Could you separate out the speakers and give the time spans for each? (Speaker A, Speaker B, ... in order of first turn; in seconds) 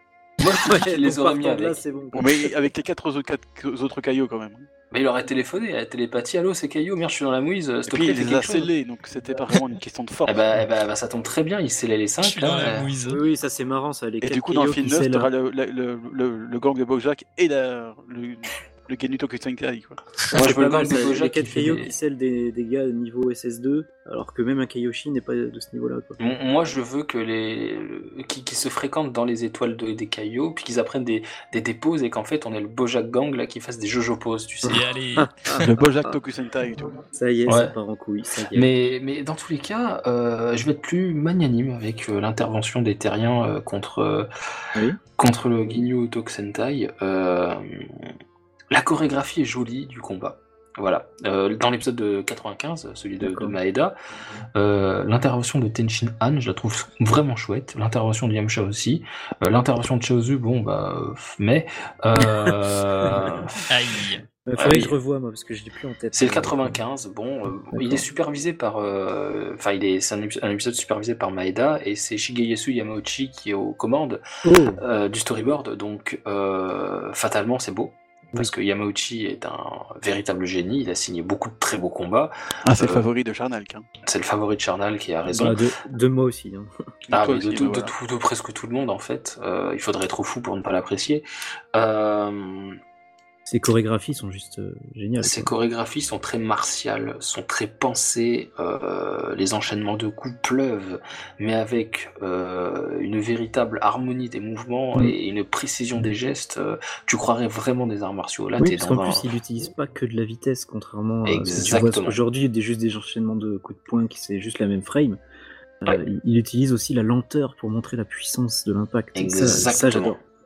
Speaker A: 0.4-1.8, 4.9-8.7, 10.2-12.9, 20.3-21.9, 26.2-34.9, 37.5-37.8, 38.5-44.3, 45.2-48.1, 48.7-54.0, 54.5-63.6, 64.6-65.0, 66.1-74.2, 74.8-83.0, 84.0-85.6, 87.1-92.8, 95.2-109.3, 111.2-112.2, 119.2-120.2
Speaker B: 0.5-2.5, 13.1-15.3, 20.3-26.2, 34.6-36.2, 37.1-38.7, 53.2-53.6, 62.2-63.5, 64.5-66.8, 67.7-68.0, 74.4-74.8, 85.3-86.7, 93.5-95.5, 108.6-115.2, 115.8-120.2
Speaker C: 2.1-4.7, 7.9-10.5, 14.2-20.0, 35.5-37.0, 82.6-83.9, 87.1-87.9
Speaker D: 12.2-13.2, 34.7-35.8, 63.7-64.2